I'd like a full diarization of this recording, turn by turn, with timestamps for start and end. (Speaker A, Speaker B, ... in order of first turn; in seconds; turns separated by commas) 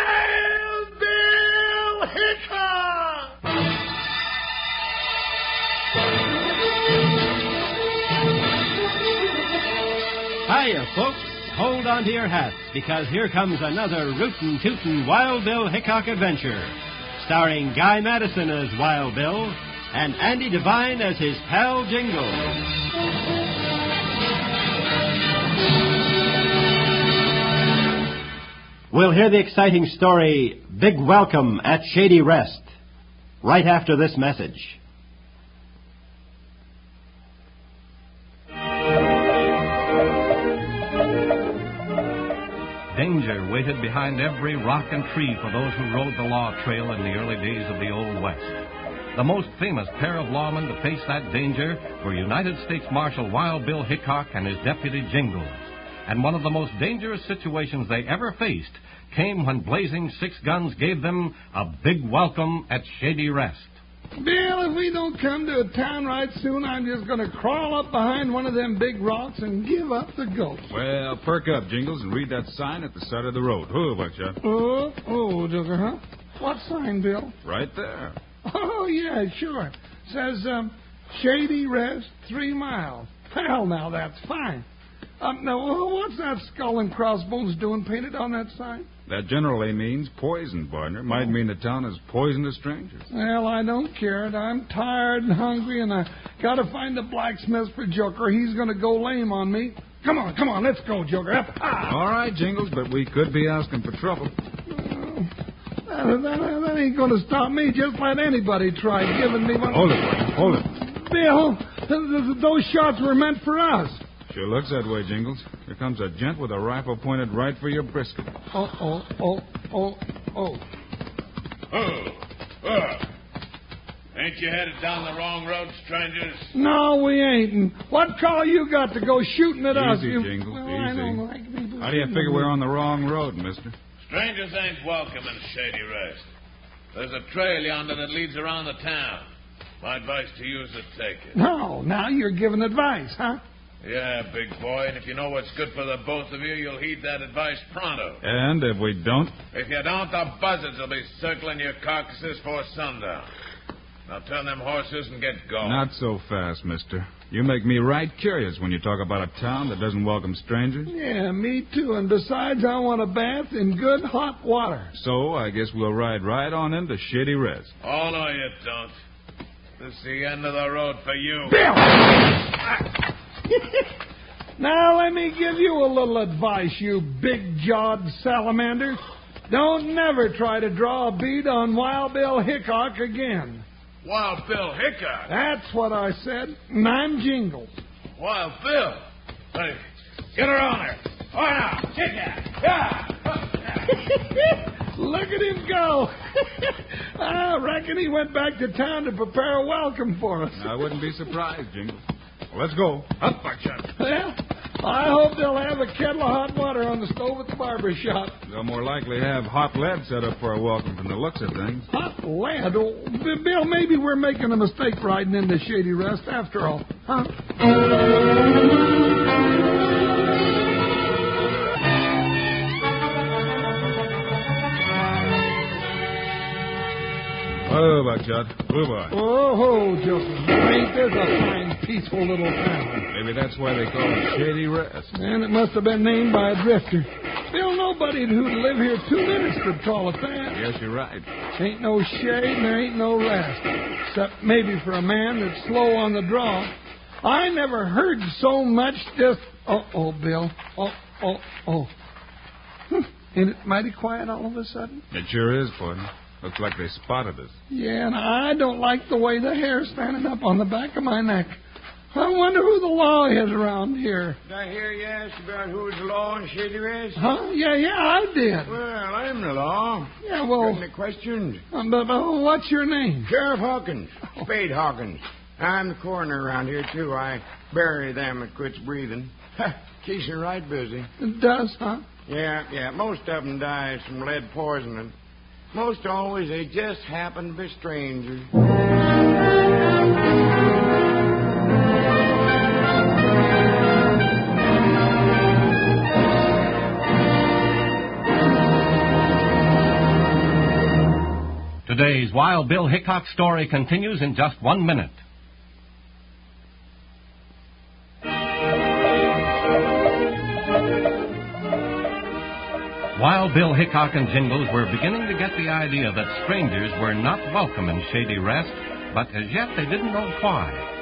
Speaker A: 2.6-3.1, Speaker B: 10.5-22.5, Speaker B: 28.9-32.7, Speaker B: 33.4-34.8, Speaker C: 42.9-48.6, Speaker C: 49.1-63.7, Speaker D: 64.2-70.7, Speaker E: 70.7-74.4, Speaker D: 74.4-77.3, Speaker E: 77.4-78.2, Speaker D: 78.5-84.7, Speaker D: 85.2-88.9, Speaker E: 89.1-93.1, Speaker D: 93.1-102.0, Speaker E: 101.8-104.3, Speaker D: 104.7-105.3, Speaker D: 105.9-114.0, Speaker E: 109.7-110.7, Speaker E: 114.3-118.3, Speaker D: 118.5-120.6, Speaker F: 121.7-123.0, Speaker F: 124.2-126.5, Speaker D: 126.5-132.5, Speaker E: 129.7-131.2, Speaker E: 131.8-133.7, Speaker F: 134.1-136.3, Speaker F: 136.9-139.2, Speaker F: 139.8-141.3, Speaker D: 141.3-143.4, Speaker F: 143.8-148.2, Speaker E: 148.2-149.3, Speaker F: 149.5-153.3, Speaker F: 154.1-155.8, Speaker E: 155.6-160.9, Speaker D: 160.9-164.9, Speaker E: 164.9-167.7, Speaker F: 167.8-168.9, Speaker F: 169.8-171.6, Speaker D: 171.5-171.8, Speaker D: 174.6-183.6, Speaker F: 184.0-185.3, Speaker D: 185.3-187.7, Speaker F: 188.2-189.0, Speaker F: 189.5-189.8, Speaker F: 190.3-193.4, Speaker D: 194.1-200.9, Speaker E: 200.6-203.2, Speaker F: 203.2-203.8, Speaker D: 204.0-208.4, Speaker E: 208.5-211.9, Speaker D: 211.9-217.3, Speaker E: 227.7-229.2, Speaker D: 229.1-233.1, Speaker E: 233.1-235.1, Speaker D: 235.1-240.6, Speaker E: 240.5-241.3, Speaker D: 241.6-246.7, Speaker D: 247.2-251.9, Speaker D: 252.9-255.0, Speaker E: 255.1-257.5, Speaker D: 257.7-261.6, Speaker D: 262.1-264.4, Speaker A: 264.5-267.2, Speaker D: 267.2-268.8, Speaker A: 268.7-271.6, Speaker D: 270.2-270.8, Speaker D: 271.7-273.3, Speaker A: 273.2-281.1, Speaker D: 281.2-282.0, Speaker A: 282.3-285.1, Speaker A: 285.7-288.5, Speaker C: 301.9-305.2, Speaker C: 313.2-320.9